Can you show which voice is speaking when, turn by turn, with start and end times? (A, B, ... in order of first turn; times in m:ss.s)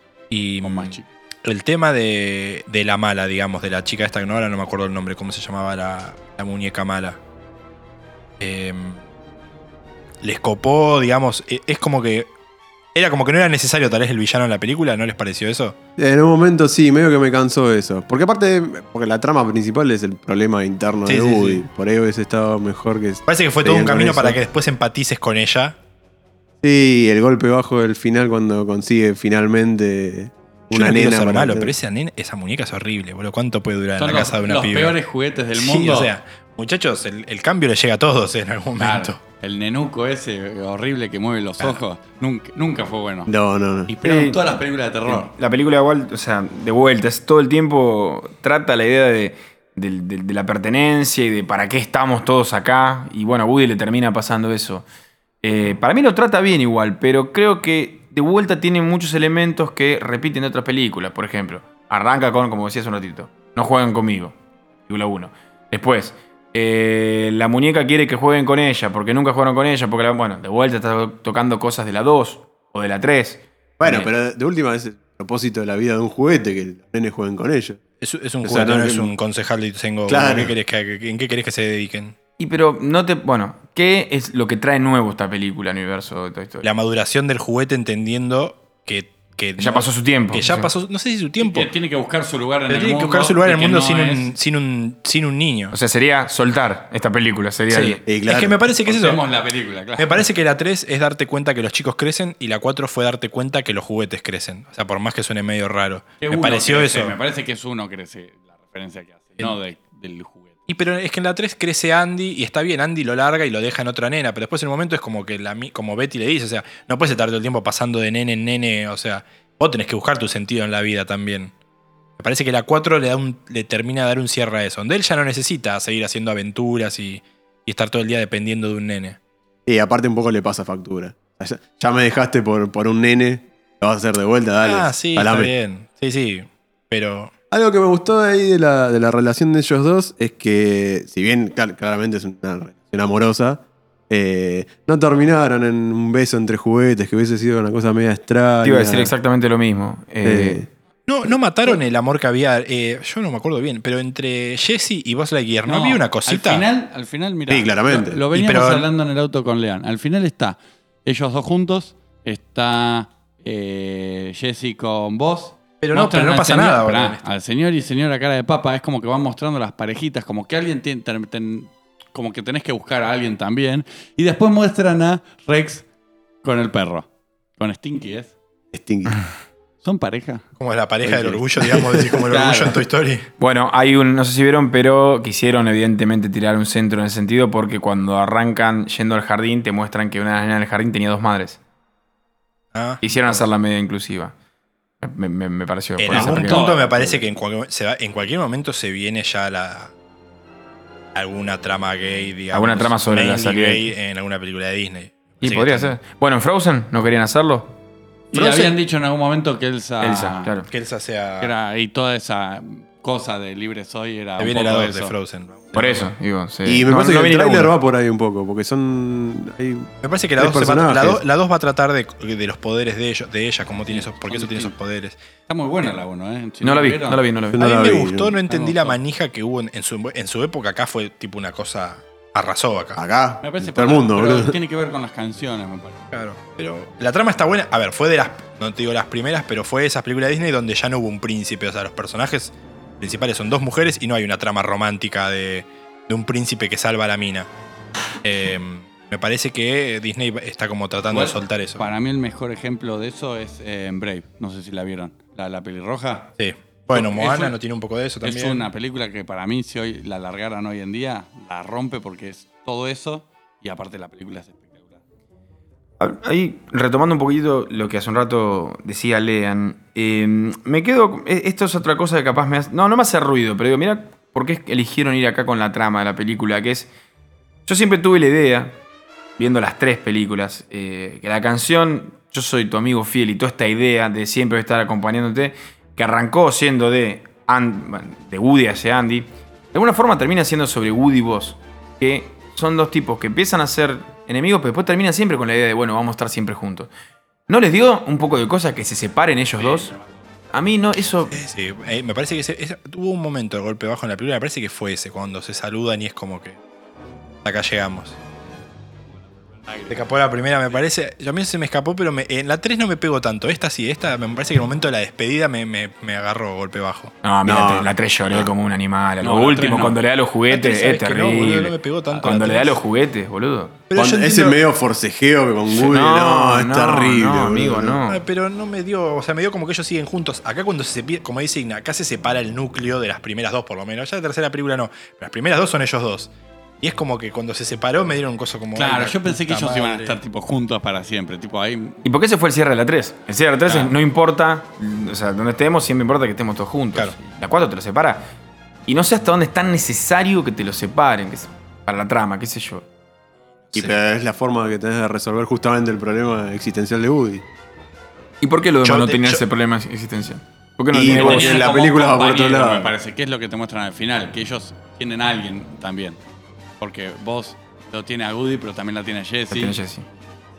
0:00.3-0:07.2 A
0:00.6-0:01.0 B
0:08.4-0:09.0 A
0:10.2-0:12.3 A
0:12.9-0:15.8 A
0:16.0-0:24.4 C
0:21.0-0:21.6 A
0:23.2-0:25.8 A
0:26.6-0:31.7 C
0:30.7-0:35.0 A
0:34.0-0:36.1 B
0:35.5-0:39.2 A
0:38.8-0:43.3 B
0:43.3-0:43.9 C
0:43.9-0:45.3 B
0:44.0-0:44.4 D
0:45.0-0:54.8 D
0:55.4-1:04.3 D
1:04.9-1:14.1 D
1:13.8-1:17.8 C
1:18.0-1:22.1 A
1:18.4-1:19.1 C
1:20.1-1:20.5 C
1:22.4-1:26.7 D
1:26.6-1:31.7 A
1:29.6-1:30.7 D
1:31.4-1:34.3 B
1:32.7-1:35.7 A
1:35.7-1:38.0 D
1:37.7-1:39.2 A
1:38.0-1:38.6 C
1:38.8-1:40.2 B
1:40.0-1:47.2 A
1:46.2-1:50.6 B
1:50.7-2:01.5 A
2:02.2-2:09.2 A
2:09.6-2:15.5 C
2:14.6-2:17.3 A
2:17.5-2:29.1 C
2:28.6-2:30.6 D
2:30.2-2:30.7 C
2:31.1-2:36.7 A
2:35.6-2:55.8 B
2:37.5-2:38.2 C
2:38.3-2:38.9 A
2:45.8-2:47.3 A
2:56.4-2:58.3 B
2:58.7-2:59.2 C
2:59.8-3:00.4 B
3:00.6-3:03.3 A
3:01.0-3:02.8 B
3:03.4-3:11.6 D
3:12.7-3:13.0 A
3:13.0-3:14.3 D
3:15.0-3:16.7 D
3:16.0-3:19.9 A
3:16.1-3:17.2 B
3:21.1-3:25.9 A
3:22.5-3:23.9 D
3:25.4-3:27.7 D
3:28.3-3:30.5 B
3:28.3-3:28.6 A
3:28.4-3:28.6 D
3:30.0-3:30.7 D
3:30.7-3:31.5 A
3:31.4-3:35.1 B
3:34.4-3:36.1 A
3:35.7-3:37.7 D
3:36.6-3:41.2 C
3:40.0-3:45.2 A
3:43.9-3:44.7 B
3:45.5-3:47.2 B
3:46.6-3:47.6 D
3:47.5-3:48.4 C
3:47.6-3:53.0 A
3:48.4-3:49.0 B
3:53.0-3:54.5 C
3:53.4-3:56.1 B
3:56.1-4:07.5 A
4:08.2-4:11.9 A
4:11.1-4:16.3 B
4:16.4-4:18.7 A
4:16.9-4:17.5 B
4:18.2-4:25.0 B
4:26.0-4:36.9 D
4:37.6-4:38.8 D
4:39.4-4:56.9 D
4:57.5-4:59.9 D
5:00.5-5:01.3 D
5:01.3-5:06.6 A
5:07.4-5:08.2 A
5:09.9-5:17.1 A
5:17.2-5:23.8 D
5:17.4-5:18.5 C
5:19.2-5:20.0 B
5:20.5-5:22.8 A
5:23.9-5:24.6 A
5:23.9-5:28.0 C
5:25.7-5:28.2 D
5:28.1-5:40.2 A
5:38.7-5:42.0 B
5:42.0-5:48.3 D
5:48.9-5:52.8 D
5:53.7-5:54.0 A
5:53.7-5:57.4 C
5:58.4-6:01.7 D
5:58.8-5:59.4 A
6:00.9-6:02.9 C
6:01.0-6:06.2 B
6:06.8-6:09.8 B
6:09.5-6:10.0 D